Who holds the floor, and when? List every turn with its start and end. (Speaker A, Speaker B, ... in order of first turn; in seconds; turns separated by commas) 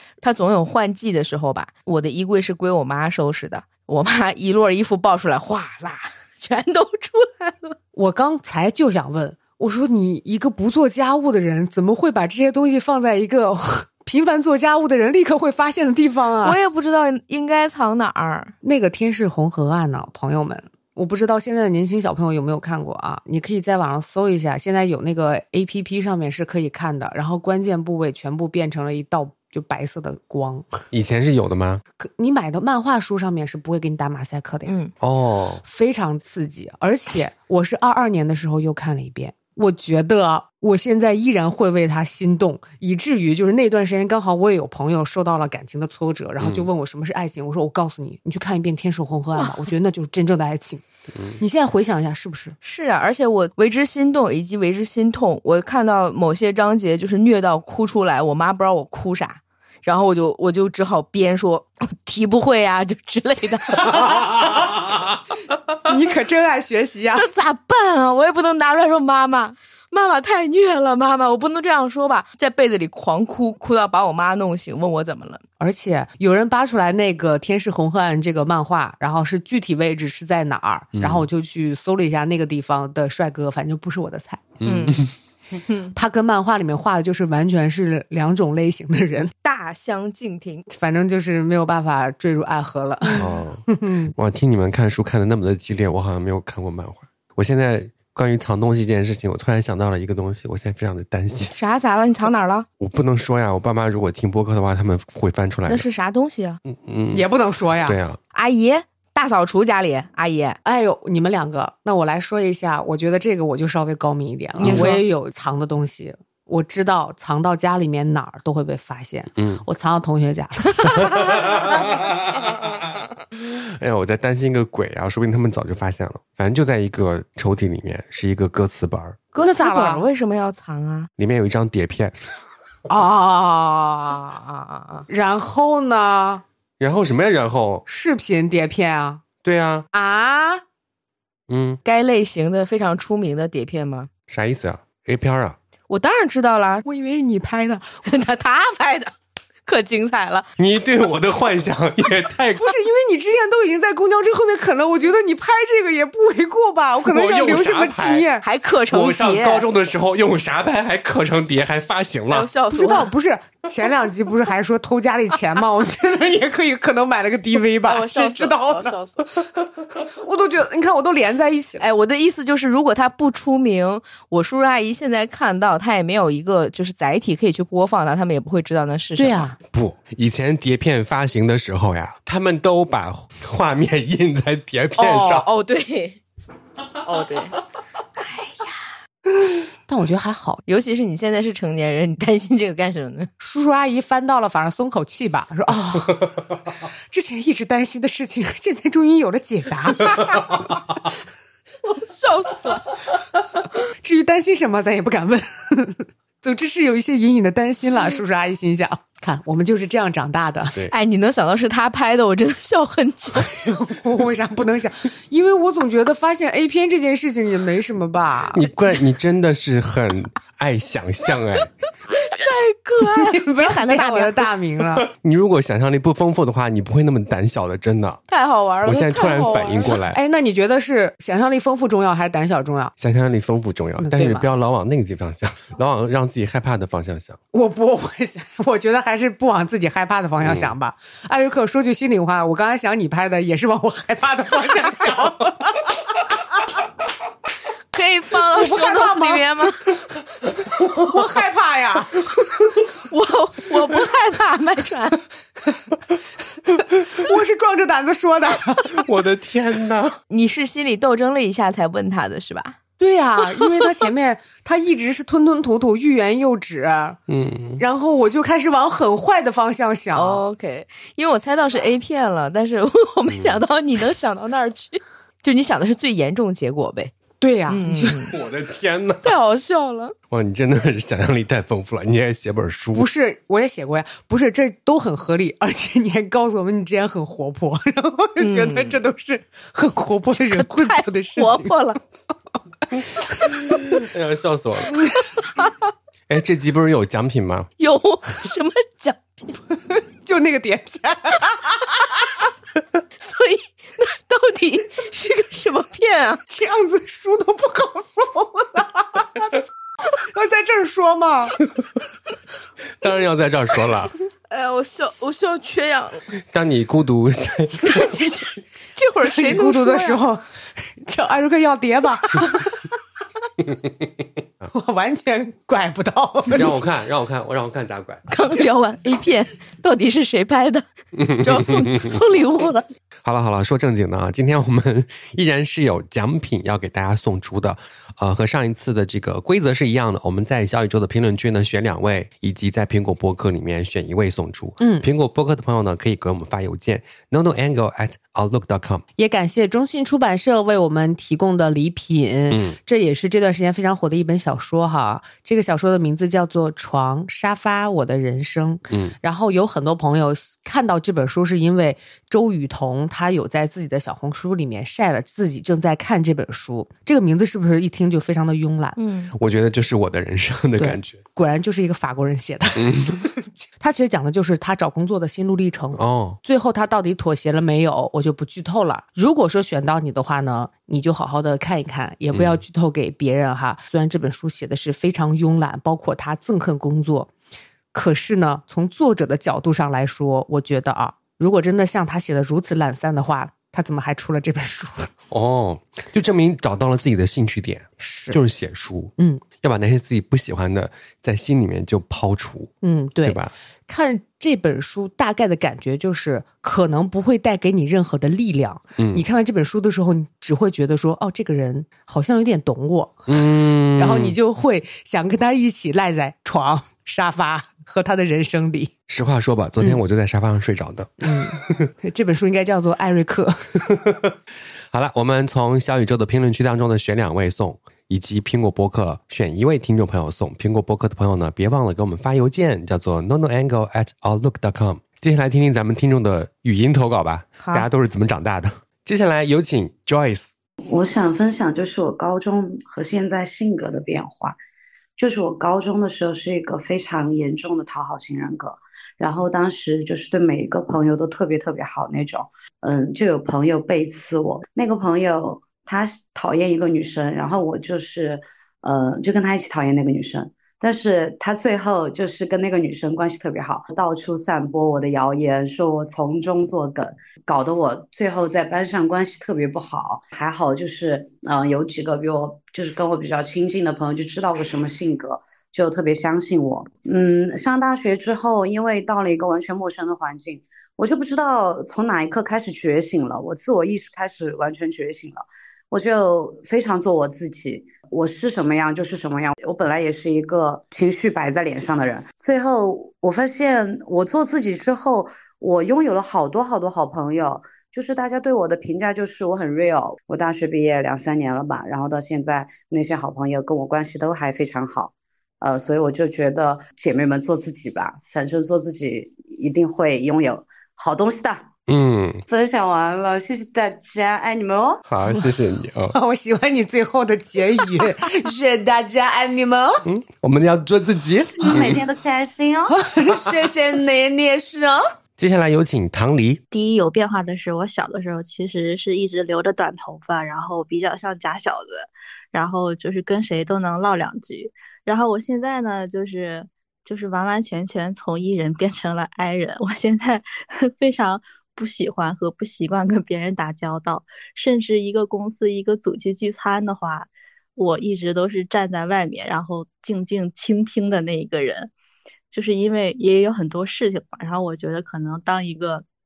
Speaker A: 0.2-7.8, Speaker B: 7.9-16.6, Speaker A: 16.4-18.5, Speaker B: 18.6-30.7, Speaker C: 30.9-31.8, Speaker B: 32.0-34.7, Speaker A: 34.7-34.9, Speaker C: 35.0-35.6, Speaker B: 35.6-50.8, Speaker C: 46.4-46.7, Speaker B: 51.4-52.5, Speaker A: 52.6-64.5, Speaker B: 65.8-67.3, Speaker A: 67.1-75.4, Speaker B: 75.6-84.5, Speaker C: 81.0-81.3, Speaker C: 84.6-85.1, Speaker A: 84.7-85.0, Speaker B: 85.9-89.3, Speaker A: 89.4-90.7, Speaker B: 90.7-94.1, Speaker C: 93.2-93.6, Speaker C: 94.2-101.6, Speaker A: 101.5-102.7, Speaker C: 102.8-105.9, Speaker A: 105.7-106.6, Speaker C: 106.7-107.3, Speaker B: 107.1-108.0, Speaker C: 107.8-108.2, Speaker A: 108.3-110.6, Speaker B: 110.7-121.3, Speaker C: 114.6-114.9, Speaker A: 114.6-115.0, Speaker C: 119.4-119.6, Speaker C: 121.0-122.2, Speaker C: 123.4-129.2, Speaker A: 129.3-131.1, Speaker B: 129.4-130.0, Speaker C: 131.2-132.2, Speaker A: 132.9-135.1, Speaker B: 135.1-136.4, Speaker C: 136.8-137.8, Speaker B: 137.9-139.2, Speaker C: 139.4-139.8, Speaker B: 139.9-140.6, Speaker C: 141.5-141.8, Speaker A: 141.8-144.1, Speaker C: 144.3-145.6, Speaker A: 145.9-146.8, Speaker B: 146.8-148.0, Speaker A: 148.1-149.1, Speaker A: 149.7-150.5, Speaker C: 150.6-152.7, Speaker B: 152.6-158.5, Speaker C: 157.1-158.3, Speaker A: 158.4-159.7, Speaker C: 158.9-162.5, Speaker A: 162.3-163.1, Speaker B: 162.7-168.9, Speaker A: 167.8-169.2, Speaker B: 170.1-171.8, Speaker A: 171.8-179.5, Speaker B: 179.2-179.6, Speaker C: 179.7-185.5, Speaker A: 185.0-186.2, Speaker A: 187.1-187.6, Speaker A: 188.2-188.9, Speaker B: 189.9-190.6, Speaker A: 190.7-193.3, Speaker B: 193.4-196.6, Speaker B: 197.1-200.6, Speaker A: 202.1-202.8, Speaker B: 203.8-210.8, Speaker A: 210.9-213.6, Speaker B: 213.4-218.7, Speaker C: 218.5-221.7, Speaker A: 222.1-224.5, Speaker B: 223.0-225.1, Speaker C: 225.1-228.2, Speaker A: 228.3-230.0, Speaker C: 228.8-230.2, Speaker B: 230.1-232.9, Speaker C: 233.0-237.4, Speaker B: 234.0-234.5, Speaker B: 237.5-246.0, Speaker C: 240.4-240.7, Speaker A: 247.9-249.9, Speaker B: 248.5-249.5, Speaker B: 250.7-252.2, Speaker A: 253.0-255.2, Speaker B: 257.2-259.0, Speaker C: 258.9-260.2, Speaker A: 260.3-262.8, Speaker B: 263.0-267.2, Speaker C: 267.3-267.8, Speaker B: 267.8-270.4, Speaker A: 270.1-277.1, Speaker C: 273.3-273.6, Speaker B: 277.4-278.2, Speaker A: 277.7-278.4, Speaker C: 278.3-279.3, Speaker A: 279.2-280.1, Speaker C: 280.3-283.1, Speaker B: 282.9-292.0, Speaker A: 288.4-289.0, Speaker A: 290.5-292.0, Speaker C: 293.7-295.0, Speaker C: 296.3-297.7, Speaker A: 297.8-299.6, Speaker B: 300.2-301.9, Speaker A: 303.2-306.4, Speaker B: 306.5-311.6, Speaker C: 313.0-314.1, Speaker A: 314.5-316.3, Speaker C: 316.5-318.1, Speaker A: 317.8-320.2, Speaker B: 319.2-322.7, Speaker B: 324.7-326.8, Speaker C: 326.5-328.2, Speaker A: 328.3-332.9, Speaker C: 331.2-332.1, Speaker C: 333.2-349.0, Speaker B: 344.8-345.1, Speaker B: 349.2-369.0, Speaker C: 352.5-352.8, Speaker C: 358.9-359.1, Speaker A: 369.0-369.3, Speaker C: 369.4-371.2, Speaker B: 370.8-387.3, Speaker C: 372.8-373.1, Speaker C: 376.0-376.4, Speaker C: 382.3-382.6, Speaker B: 387.9-395.1, Speaker C: 395.3-402.7, Speaker B: 398.0-398.4, Speaker B: 399.2-399.4, Speaker B: 402.8-418.9, Speaker C: 403.2-403.5, Speaker C: 409.0-409.2, Speaker C: 413.3-414.4, Speaker C: 419.1-421.9, Speaker B: 421.2-423.7, Speaker C: 424.9-440.5, Speaker A: 437.6-437.9, Speaker D: 440.9-444.6, Speaker D: 445.2-511.7, Speaker C: 511.9-512.4, Speaker D: 512.5-515.0, Speaker C: 515.1-516.2, Speaker B: 516.1-520.0, Speaker C: 520.0-522.0, Speaker D: 521.6-523.0, Speaker B: 522.9-525.1, Speaker C: 525.4-526.6, Speaker E: 526.7-551.9, Speaker E: 552.5-556.0